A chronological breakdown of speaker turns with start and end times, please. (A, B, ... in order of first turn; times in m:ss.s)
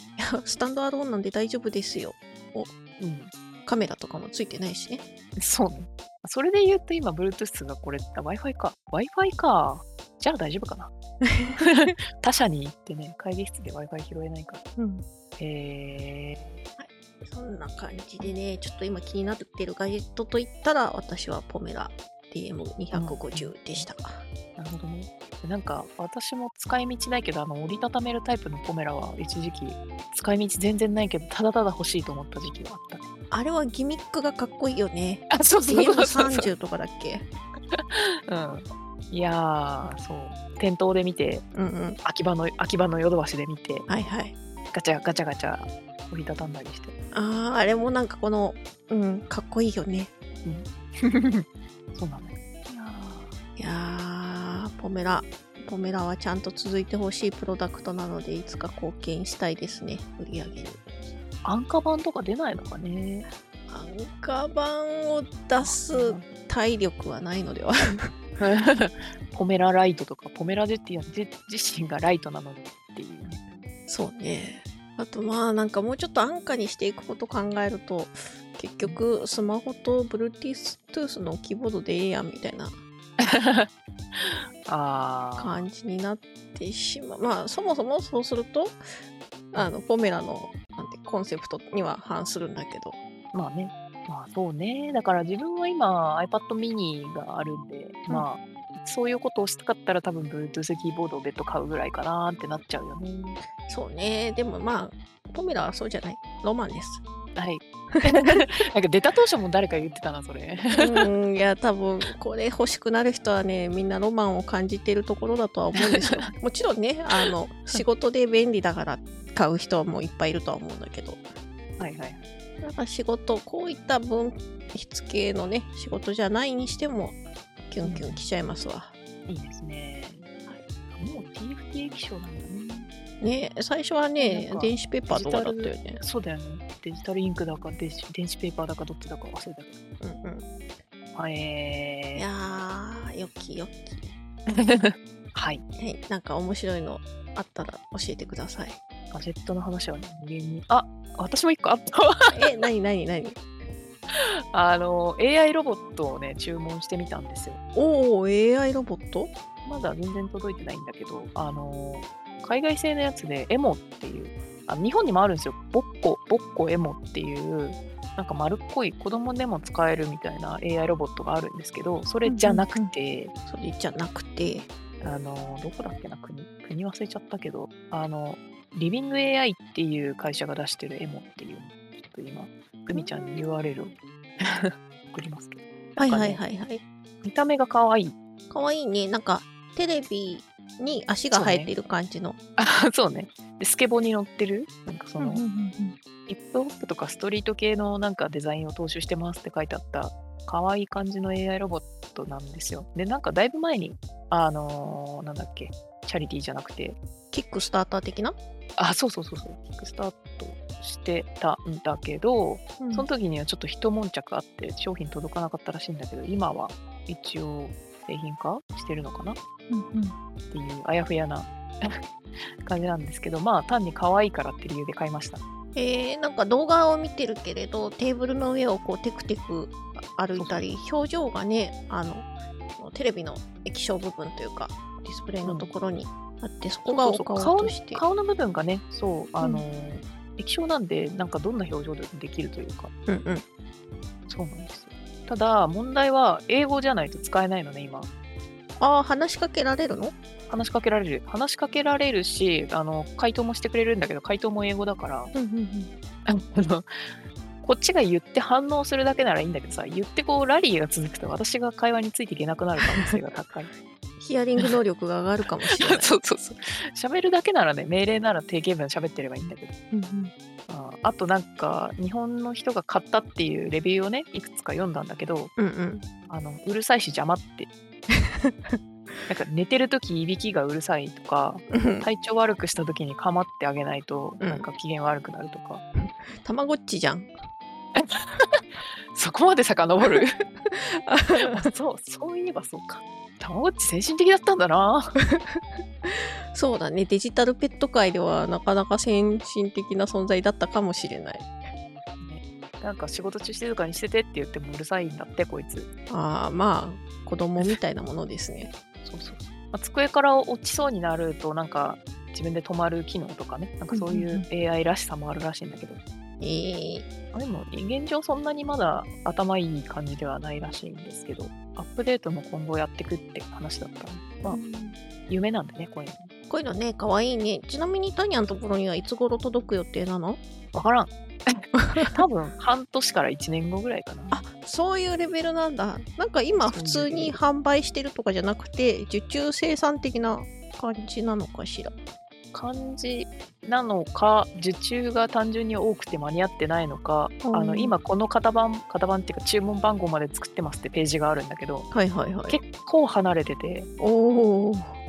0:00.2-0:02.7 A
0:03.0-0:03.3 B
0:03.7-0:05.0 A
0:05.4-0:10.9 B
0:11.2-0:11.9 A
0:11.6-0:14.6 B
0:14.8-0:15.0 A
0:15.4-0:16.6 B
0:16.8-0:24.2 A
0:22.9-0:23.9 B
0:24.6-0:33.0 B
0:33.3-0:37.3 A
0:35.3-0:36.5 B
0:37.7-0:41.4 B
0:41.5-0:42.0 A
0:42.0-0:43.9 B
0:43.9-0:44.4 A
0:44.7-0:46.9 B
0:47.1-0:50.1 A
0:50.4-0:53.4 B
0:53.6-1:01.1 A
1:01.4-1:03.3 B
1:03.7-1:08.1 A
1:05.6-1:06.3 B
1:08.4-1:13.4 B
1:13.9-1:22.8 A
1:23.2-1:25.6 B
1:25.4-1:28.8 A
1:29.5-1:33.0 A
1:33.3-1:43.4 B
1:43.6-1:47.0 A
1:47.4-1:51.1 B
1:47.9-1:48.4 A
1:50.7-2:01.3 A
1:55.8-1:56.3 B
1:57.2-1:57.8 B
2:01.8-2:02.2 B
2:02.6-2:08.9 A
2:07.8-2:08.3 B
2:09.3-2:10.3 B
2:10.9-2:12.9 B
2:13.2-2:16.0 A
2:14.2-2:19.8 B
2:20.0-2:20.5 A
2:21.2-2:22.2 B
2:22.2-2:24.2 A
2:24.5-2:25.6 B
2:25.8-2:28.8 A
2:29.1-2:32.5 B
2:32.3-2:33.4 A
2:34.1-2:37.6 B
2:37.8-2:39.3 A
2:39.6-2:53.3 B
2:52.2-2:52.9 A
2:53.5-2:54.7 A
2:55.0-3:06.4 B
3:02.9-3:03.4 A
3:06.0-3:06.8 A
3:07.2-3:08.2 B
3:08.5-3:12.4 A
3:11.3-3:11.7 B
3:12.6-3:15.4 B
3:15.2-3:16.0 A
3:16.3-3:27.0 B
3:27.3-3:28.4 A
3:28.8-3:39.4 B
3:32.8-3:33.1 A
3:39.7-3:40.2 A
3:40.5-3:42.0 B
3:42.6-3:45.4 B
3:45.8-3:58.0 A
3:50.4-3:50.6 B
3:55.4-3:55.7 B
3:56.9-4:02.9 B
4:03.1-4:03.4 A
4:04.3-4:08.1 B
4:08.8-4:10.2 A
4:10.5-4:15.3 B
4:15.3-4:15.9 A
4:16.3-4:16.9 B
4:17.6-4:23.7 B
4:22.8-4:23.2 A
4:24.2-4:26.1 A
4:25.7-4:29.7 B
4:29.9-4:30.3 A
4:30.7-4:35.5 B
4:35.6-4:36.1 A
4:36.3-4:37.7 B
4:38.1-4:38.8 A
4:39.3-4:45.8 B
4:41.7-4:42.1 A
4:44.4-4:44.7 A
4:46.0-4:47.3 A
4:48.0-4:50.4 B
4:50.1-4:51.7 A
4:51.4-4:55.2 B
4:55.2-5:01.5 A
5:02.2-5:05.9 B
5:06.1-5:08.7 A
5:09.0-5:16.0 B
5:13.9-5:14.5 A
5:16.4-5:17.1 A
5:17.3-5:24.6 B
5:24.5-5:25.0 A
5:25.3-5:26.3 B
5:26.5-5:30.4 A
5:30.7-5:34.4 B
5:31.8-5:32.1 A
5:34.3-5:41.9 A
5:36.6-5:37.4 B
5:42.5-5:51.9 B
5:47.4-5:48.0 A
5:51.9-5:52.6 A
5:52.5-5:53.9 B
5:54.0-5:55.0 A